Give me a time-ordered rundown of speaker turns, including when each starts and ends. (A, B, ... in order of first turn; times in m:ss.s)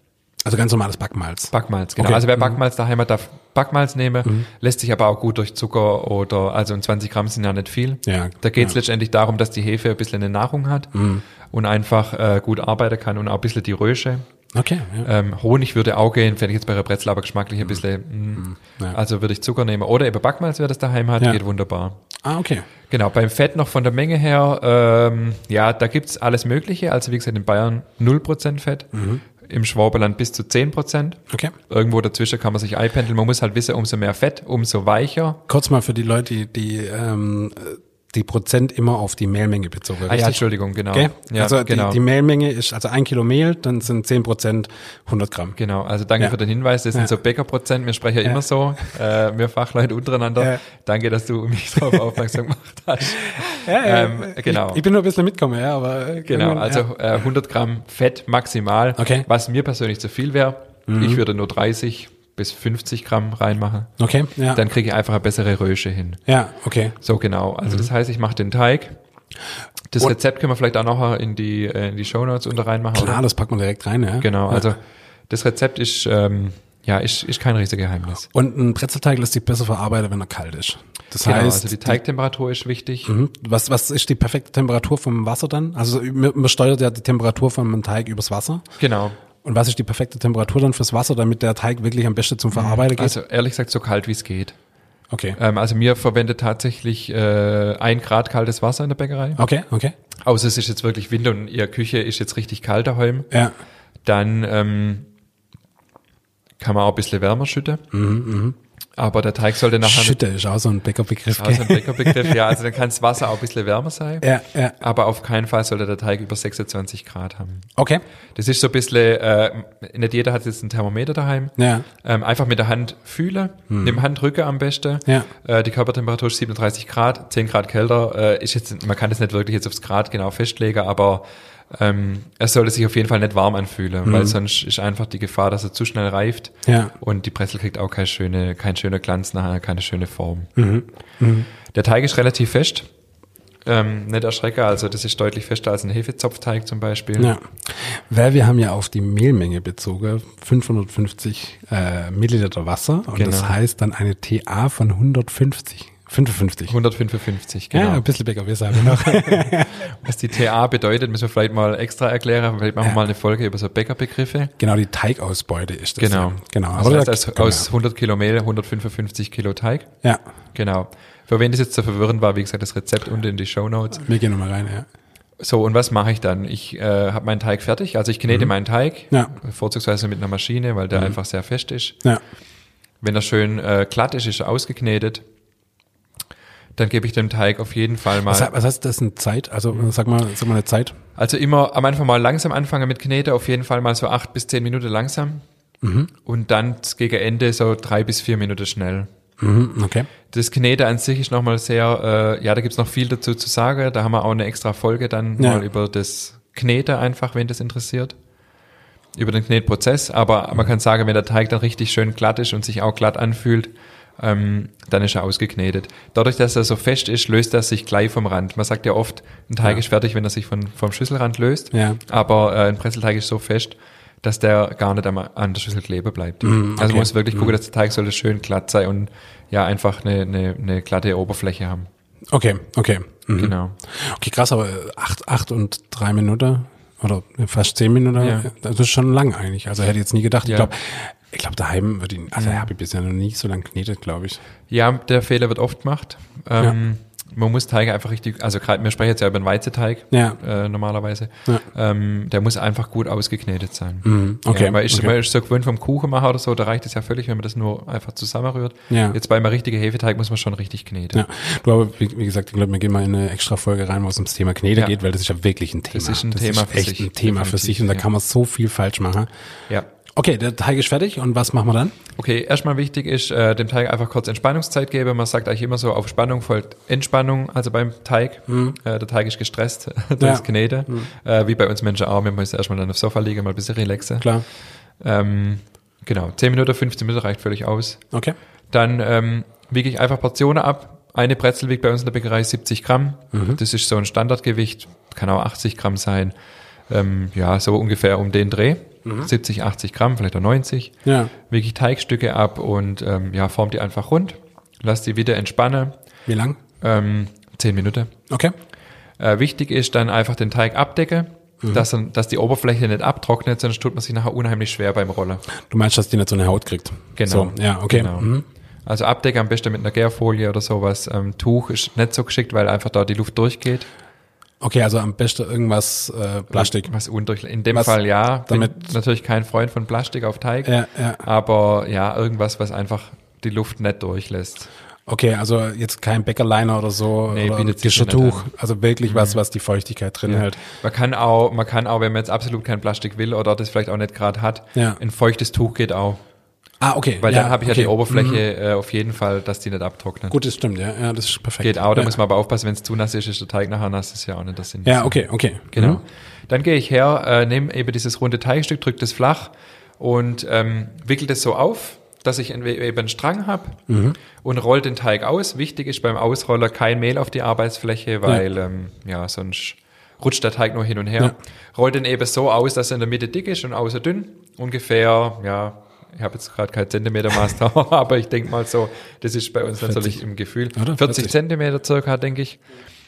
0:00.4-0:02.6 A
0:01.5-0:10.9 B
0:08.0-0:08.8 A
0:10.9-0:11.2 A
0:11.5-0:14.2 B
0:14.5-0:15.1 A
0:15.0-0:22.0 B
0:18.4-0:19.0 A
0:22.2-0:22.6 A
0:22.9-0:28.9 B
0:28.9-0:29.2 A
0:29.4-0:35.4 B
0:35.5-0:45.6 A
0:40.0-0:42.0 B
0:45.6-0:54.8 B
0:53.6-0:56.9 A
0:56.2-1:03.9 B
0:59.0-0:59.2 A
1:00.9-1:01.2 A
1:04.0-1:04.6 A
1:04.5-1:06.2 B
1:06.3-1:07.0 A
1:07.0-1:09.0 B
1:09.9-1:13.2 B
1:12.9-1:14.7 A
1:14.2-1:18.3 B
1:18.3-1:22.0 A
1:21.2-1:23.1 B
1:23.0-1:28.6 A
1:28.8-1:29.2 B
1:29.4-1:33.1 A
1:32.5-1:34.6 B
1:35.1-1:35.4 A
1:35.4-1:39.4 B
1:39.4-1:39.9 A
1:40.2-1:43.3 B
1:44.0-1:45.1 B
1:46.6-1:47.8 B
1:47.9-1:48.6 A
1:49.0-1:50.2 B
1:49.8-1:52.5 A
1:51.4-1:54.2 B
1:54.2-1:54.8 A
1:54.8-1:57.7 B
1:57.8-1:58.0 A
1:58.3-2:20.5 B
2:01.6-2:01.9 A
2:03.7-2:04.0 A
2:14.0-2:14.4 A
2:16.6-2:16.9 A
2:20.6-2:21.5 A
2:21.7-2:22.9 B
2:23.6-2:27.3 B
2:27.2-2:36.7 A
2:33.1-2:33.6 B
2:36.7-2:38.0 B
2:37.7-2:39.9 A
2:38.7-2:44.5 B
2:44.6-2:47.7 A
2:46.0-2:49.9 B
2:50.5-2:54.1 B
2:54.0-2:54.8 A
2:55.4-3:02.0 B
3:03.0-3:05.2 B
3:06.8-3:08.5 B
3:08.3-3:10.9 A
3:11.2-3:15.4 B
3:15.8-3:16.1 A
3:16.2-3:19.1 B
3:19.4-3:20.1 A
3:20.3-3:28.1 B
3:25.4-3:25.6 A
3:29.1-3:51.9 B
3:41.7-3:42.0 A
3:46.4-3:47.6 A
3:52.3-4:04.4 A
3:53.4-3:53.8 B
3:58.2-3:58.5 B
4:00.4-4:00.7 B
4:02.3-4:02.7 B
4:04.7-4:21.2 B
4:10.1-4:10.4 A
4:14.0-4:15.2 A
4:18.9-4:19.2 A
4:21.1-4:29.3 A
4:25.9-4:28.0 B
4:30.1-4:32.0 A
4:32.2-4:44.3 B
4:38.5-4:38.8 A
4:40.2-4:41.1 A
4:45.0-4:48.0 B
4:48.7-4:56.3 B
4:53.3-4:53.6 A
4:56.9-5:05.9 B
4:59.0-4:59.3 A
5:01.0-5:01.3 A
5:06.3-5:06.6 A
5:06.8-5:08.1 B
5:08.3-5:08.5 A
5:09.2-5:15.4 B
5:15.6-5:18.4 A
5:17.2-5:18.3 B
5:18.8-5:23.9 B
5:24.6-5:26.9 A
5:26.5-5:34.7 B
5:28.5-5:28.9 A
5:30.6-5:31.2 A
5:35.1-5:40.6 A
5:37.3-5:38.5 B
5:39.0-5:39.4 B
5:40.3-5:46.2 B
5:44.7-5:45.0 A
5:46.8-5:48.4 A
5:47.2-5:50.4 B
5:50.3-5:52.2 A
5:51.6-6:03.8 B
5:54.8-5:56.0 A
6:03.9-6:04.2 A
6:04.4-6:22.6 B
6:19.8-6:20.2 A
6:20.7-6:21.3 A